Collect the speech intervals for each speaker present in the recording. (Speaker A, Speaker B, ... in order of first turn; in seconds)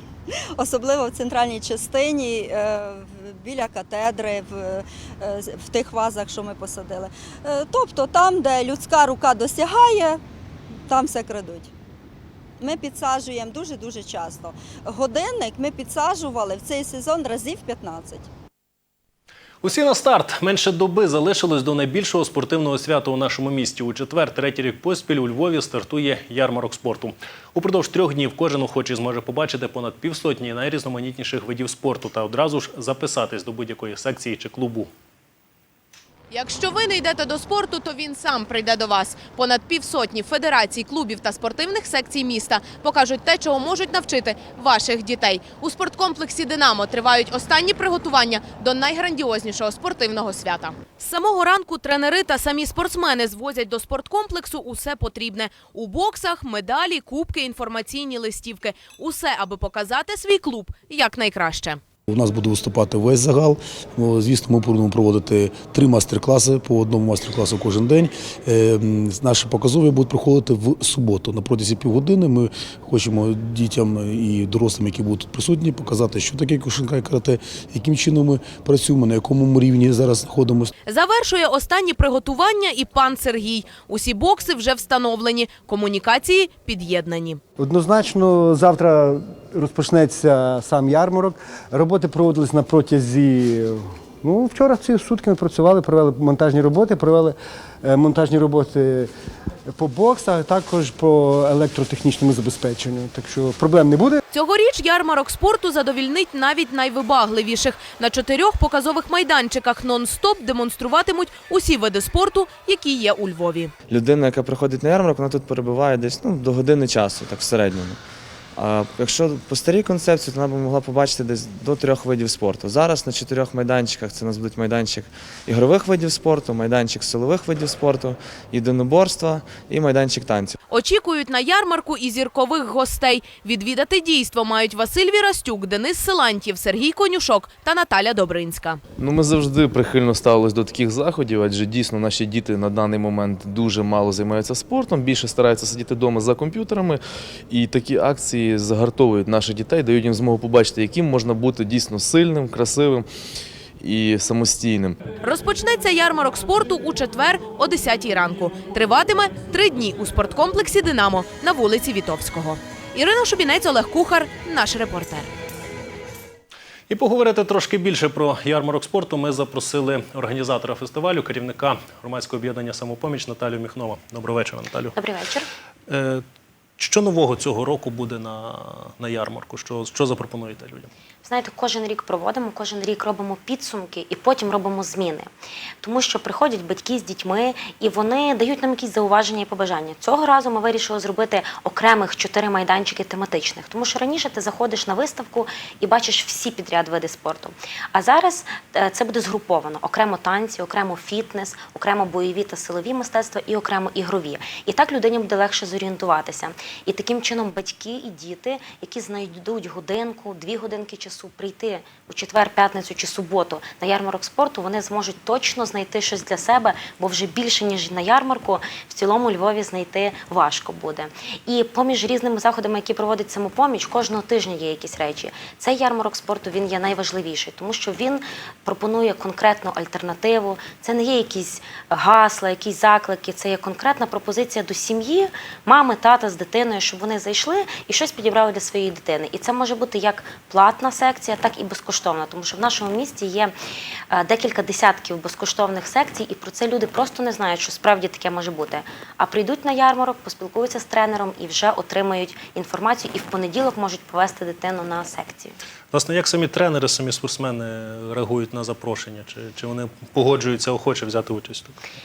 Speaker A: 0.6-10.2, 10.9-11.7, 12.6-18.3
Speaker B: 19.6-34.9, 166.9-174.9, 175.9-176.2, 176.8-180.9, 255.9-261.8
Speaker C: 36.3-61.8, 80.8-87.4, 104.3-113.7, 130.7-138.8, 155.2-165.3
Speaker D: 62.1-80.7
Speaker E: 87.6-99.1, 99.7-104.2
Speaker F: 113.9-118.0, 118.5-130.5
Speaker G: 139.0-153.1, 153.8-155.0
Speaker H: 175.0-175.5, 181.2-185.3, 185.8-243.5, 244.1-255.5